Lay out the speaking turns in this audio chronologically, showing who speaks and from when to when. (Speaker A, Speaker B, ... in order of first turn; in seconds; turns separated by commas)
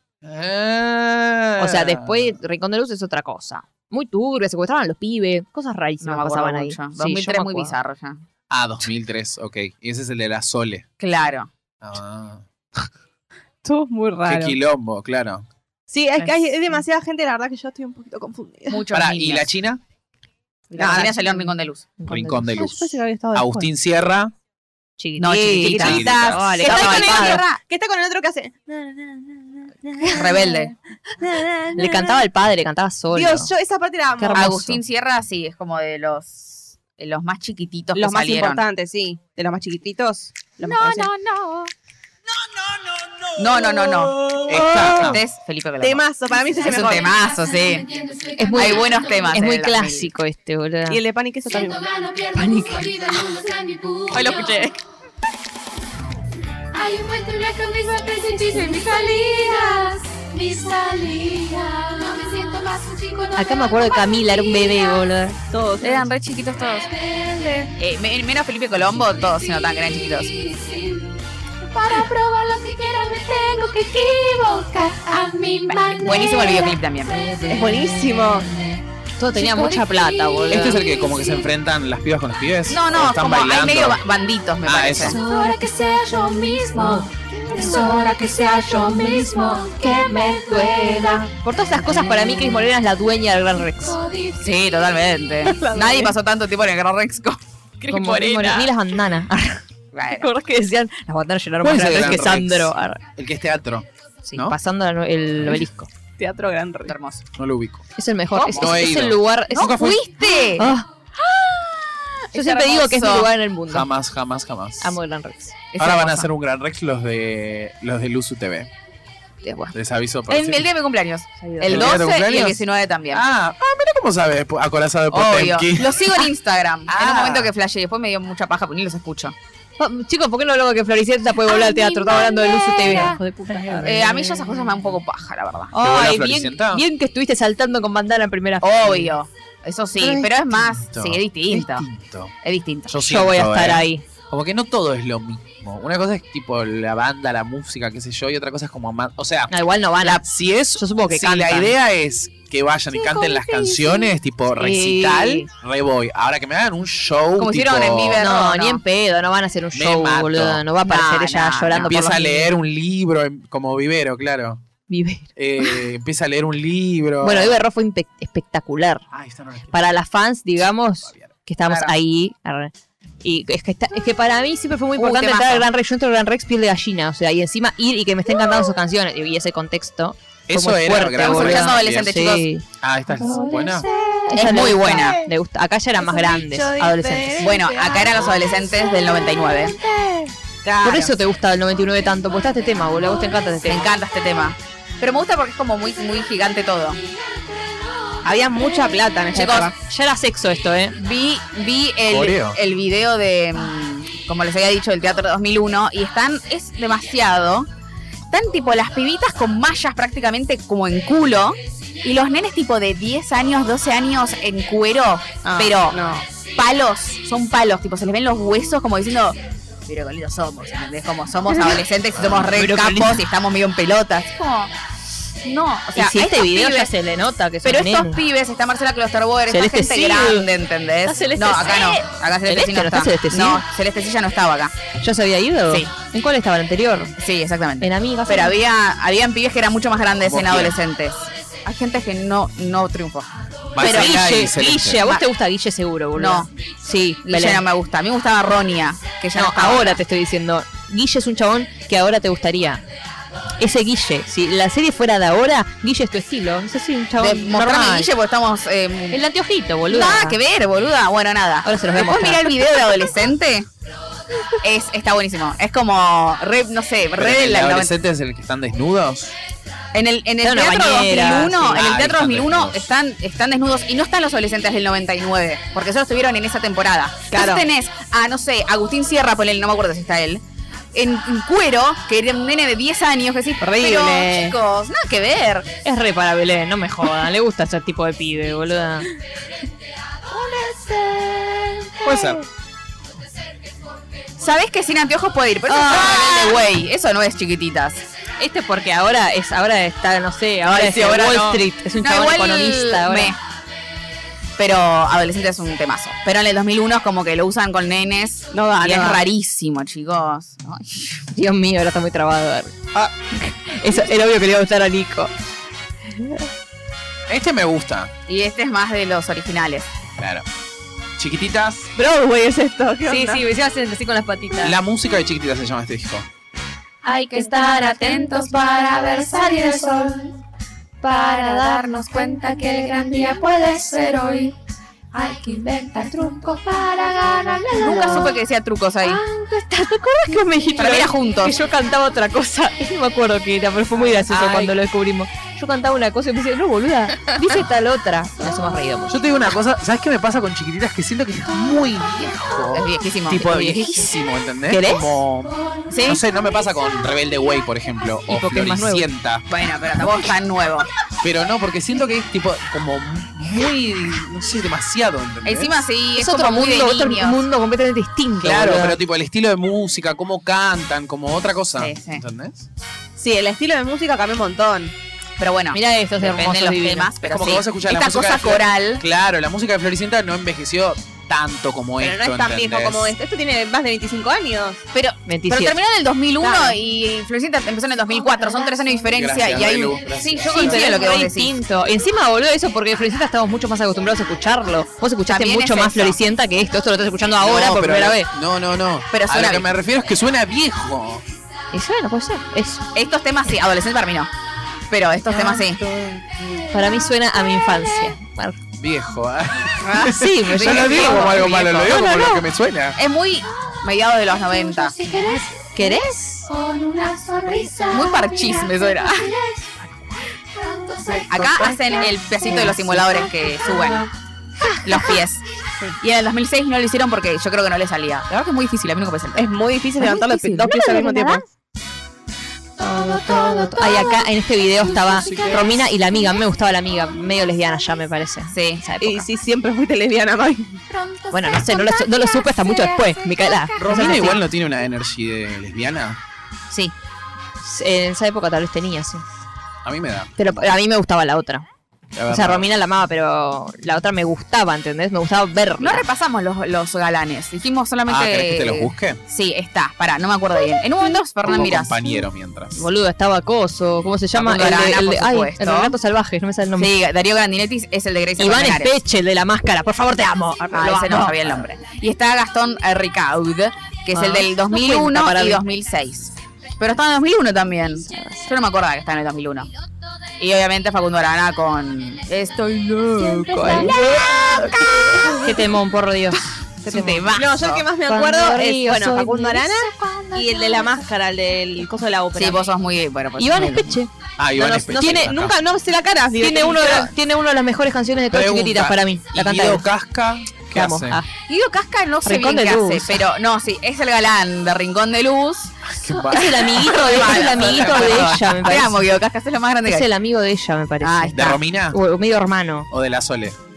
Speaker A: 0.2-2.4, Speaker B: 1.6-7.7, Speaker C: 6.0-8.2, Speaker A: 8.5-10.8, Speaker C: 11.0-11.5, Speaker A: 11.8-12.5, Speaker D: 13.6-14.6, Speaker A: 14.2-15.5, Speaker D: 15.9-18.9, Speaker C: 16.2-16.4, Speaker C: 18.7-19.5, Speaker A: 18.9-19.8, Speaker C: 20.7-21.9, Speaker D: 20.8-21.4, Speaker B: 20.9-21.3, Speaker B: 22.0-22.6, Speaker A: 22.1-24.3, Speaker D: 22.5-23.7, Speaker B: 25.0-27.4, Speaker C: 25.2-27.6, Speaker D: 25.4-32.2, Speaker A: 25.7-26.6, Speaker C: 30.1-30.7, Speaker B: 31.8-33.5, Speaker D: 33.1-34.5, Speaker B: 34.2-34.8, Speaker C: 34.4-38.6, Speaker D: 37.9-41.1, Speaker C: 40.7-41.7, Speaker C: 43.4-44.2, Speaker D: 43.4-45.2, Speaker A: 44.5-45.2, Speaker C: 44.7-47.9, Speaker D: 45.8-47.1, Speaker E: 46.8-49.4, Speaker B: 48.4-51.0, Speaker C: 48.5-50.1, Speaker D: 50.9-51.9, Speaker E: 51.5-54.7, Speaker B: 52.4-52.9, Speaker D: 54.1-54.7, Speaker E: 56.7-65.2, Speaker B: 63.4-65.4, Speaker D: 65.5-66.1, Speaker C: 65.8-66.9, Speaker E: 66.9-67.7, Speaker C: 67.8-70.3, Speaker E: 69.2-77.9, Speaker C: 75.8-77.2, Speaker D: 77.5-78.5, Speaker B: 79.2-80.8, Speaker E: 79.3-81.5, Speaker A: 80.5-84.0, Speaker C: 82.7-85.2, Speaker A: 84.6-85.2, Speaker E: 85.0-91.3, Speaker B: 91.3-94.0, Speaker E: 93.8-94.5, Speaker C: 94.4-97.4, Speaker D: 95.4-96.1, Speaker D: 97.8-98.7, Speaker B: 97.9-103.0, Speaker C: 99.9-100.3, Speaker A: 101.6-104.5, Speaker B: 104.2-105.9, Speaker D: 106.2-107.0, Speaker C: 106.9-107.2, Speaker A: 107.4-107.8, Speaker B: 108.0-110.0, Speaker C: 108.3-108.9, Speaker A: 108.5-110.0, Speaker C: 109.5-113.3, Speaker B: 110.5-110.9, Speaker B: 112.3-113.9, Speaker A: 113.7-115.0, Speaker B: 114.8-115.6, Speaker C: 115.7-116.3, Speaker A: 115.8-118.7, Speaker B: 119.4-119.7, Speaker A: 119.7-120.7, Speaker C: 120.3-123.2, Speaker B: 121.4-122.0, Speaker A: 121.7-126.2, Speaker C: 125.1-129.3, Speaker A: 126.9-127.5, Speaker B: 129.8-134.5, Speaker E: 131.4-133.2, Speaker C: 133.8-135.7, Speaker B: 135.7-139.1, Speaker A: 135.8-136.8, Speaker C: 138.6-141.8, Speaker A: 140.8-142.3, Speaker C: 142.4-142.9, Speaker A: 142.9-158.2, Speaker B: 143.0-144.0, Speaker B: 149.5-151.7, Speaker E: 153.3-153.9, Speaker B: 154.6-155.5, Speaker C: 157.4-158.8, Speaker B: 158.2-162.5, Speaker A: 159.7-160.6, Speaker C: 160.8-162.3, Speaker A: 161.8-164.6, Speaker B: 164.9-165.8, Speaker A: 165.4-167.6, Speaker B: 167.2-169.0, Speaker A: 169.1-169.9, Speaker B: 169.7-172.7, Speaker A: 171.0-171.3, Speaker C: 171.7-171.9, Speaker B: 173.2-182.6, Speaker C: 175.0-175.7, Speaker A: 180.5-182.1, Speaker C: 181.1-182.4, Speaker A: 182.8-183.9, Speaker B: 183.2-183.6, Speaker D: 183.2-185.3, Speaker B: 184.3-187.5, Speaker C: 184.3-185.2, Speaker D: 186.0-188.4, Speaker C: 187.4-189.8, Speaker D: 189.6-191.1, Speaker B: 190.8-193.9, Speaker C: 193.6-197.0, Speaker D: 198.2-199.7, Speaker B: 199.3-201.0, Speaker C: 199.4-199.7, Speaker C: 201.0-207.7, Speaker A: 202.1-202.6, Speaker C: 208.3-216.0, Speaker D: 215.4-216.2, Speaker C: 216.5-224.7, Speaker B: 222.4-223.2, Speaker C: 225.4-226.9, Speaker B: 225.9-228.2, Speaker C: 227.6-234.7, Speaker B: 229.5-230.5, Speaker B: 231.1-233.6, Speaker B: 235.0-237.1, Speaker C: 237.2-243.3, Speaker B: 237.8-238.6, Speaker A: 240.2-240.7, Speaker A: 243.7-245.0, Speaker B: 243.8-247.6, Speaker C: 243.8-244.1, Speaker C: 246.1-246.5, Speaker C: 247.2-250.0, Speaker B: 249.3-252.8, Speaker B: 253.6-258.1, Speaker C: 257.2-259.2, Speaker B: 259.1-260.4, Speaker C: 259.9-263.7, Speaker B: 261.6-262.6, Speaker C: 264.6-267.9, Speaker A: 267.2-269.3, Speaker C: 269.9-285.7, Speaker B: 270.4-271.9, Speaker A: 271.7-272.9, Speaker D: 277.3-277.6, Speaker D: 283.6-284.6, Speaker B: 285.8-289.1, Speaker D: 290.3-292.2, Speaker A: 292.0-292.4, Speaker C: 294.4-298.0, Speaker B: 295.7-296.6, Speaker B: 298.4-303.3, Speaker C: 300.6-303.4, Speaker C: 304.6-311.2, Speaker D: 308.5-309.2, Speaker B: 311.3-315.3, Speaker B: 316.1-316.4, Speaker A: 317.3-318.1, Speaker C: 318.3-319.9, Speaker A: 320.2-320.4, Speaker A: 321.2-321.9, Speaker D: 321.9-323.4, Speaker B: 323.1-324.8, Speaker A: 324.6-326.3, Speaker E: 327.0-330.4, Speaker E: 331.0-334.6, Speaker B: 331.3-331.8, Speaker E: 335.1-338.3, Speaker C: 337.7-339.2, Speaker B: 337.9-338.3, Speaker B: 339.0-349.2, Speaker C: 340.8-341.6, Speaker C: 344.3-344.7, Speaker A: 349.1-359.5, Speaker C: 352.7-353.9, Speaker B: 353.5-354.0, Speaker B: 354.7-355.2, Speaker E: 355.4-357.2, Speaker C: 355.9-356.2, Speaker B: 358.3-359.1, Speaker C: 359.5-360.9, Speaker A: 361.2-365.9, Speaker C: 365.4-367.4, Speaker B: 366.1-369.0, Speaker A: 368.4-372.7, Speaker C: 371.8-372.2, Speaker D: 373.2-374.9, Speaker C: 375.4-379.0, Speaker B: 375.7-377.1, Speaker A: 377.2-383.1, Speaker D: 382.0-384.8, Speaker C: 384.9-391.6, Speaker B: 385.3-385.8, Speaker D: 386.4-386.8, Speaker E: 388.2-389.1, Speaker A: 389.1-391.0, Speaker B: 390.4-398.3, Speaker C: 395.2-396.2, Speaker C: 397.4-397.9, Speaker A: 397.4-401.2, Speaker C: 399.1-399.7, Speaker B: 401.7-402.9, Speaker C: 402.9-404.3, Speaker C: 404.9-405.8, Speaker B: 405.3-405.6, Speaker A: 405.8-406.6, Speaker B: 406.7-408.6, Speaker A: 408.8-413.0, Speaker C: 409.9-411.6, Speaker B: 409.9-412.4, Speaker C: 412.9-414.9, Speaker E: 414.4-419.7, Speaker B: 415.7-416.4, Speaker C: 417.9-419.3, Speaker E: 420.5-422.7, Speaker A: 421.1-421.8, Speaker C: 421.3-424.1, Speaker C: 424.8-425.4, Speaker C: 426.0-430.6, Speaker D: 429.4-431.4, Speaker B: 430.1-431.4, Speaker E: 432.8-436.4, Speaker B: 432.8-439.3, Speaker C: 438.5-438.8, Speaker D: 439.0-440.8, Speaker E: 440.9-444.4, Speaker B: 441.3-444.4, Speaker A: 443.8-446.2, Speaker B: 447.6-449.2, Speaker A: 449.9-450.7, Speaker B: 450.4-451.6, Speaker A: 452.1-452.7, Speaker B: 452.3-456.1, Speaker C: 455.8-462.1, Speaker A: 458.1-459.2, Speaker A: 461.4-462.9, Speaker B: 462.8-466.9, Speaker C: 464.3-465.9, Speaker C: 466.8-469.0, Speaker B: 468.4-471.4, Speaker C: 470.7-479.7, Speaker B: 474.1-475.6, Speaker B: 478.1-478.4, Speaker C: 480.4-485.6, Speaker E: 483.1-484.6, Speaker B: 483.5-483.9, Speaker D: 483.6-484.7, Speaker B: 485.4-487.3, Speaker C: 486.8-487.9, Speaker D: 487.3-492.6, Speaker B: 488.1-489.7, Speaker E: 489.6-491.1, Speaker C: 492.3-494.0, Speaker B: 493.4-495.4, Speaker A: 494.4-495.6, Speaker D: 494.6-497.1, Speaker B: 496.4-499.9, Speaker A: 498.3-501.2, Speaker B: 500.7-501.3, Speaker C: 501.5-505.8, Speaker B: 502.2-503.2, Speaker A: 505.9-508.6, Speaker B: 506.3-509.1, Speaker C: 506.3-510.1, Speaker B: 509.9-512.9, Speaker C: 511.0-511.6, Speaker A: 511.4-512.0, Speaker A: 512.9-513.6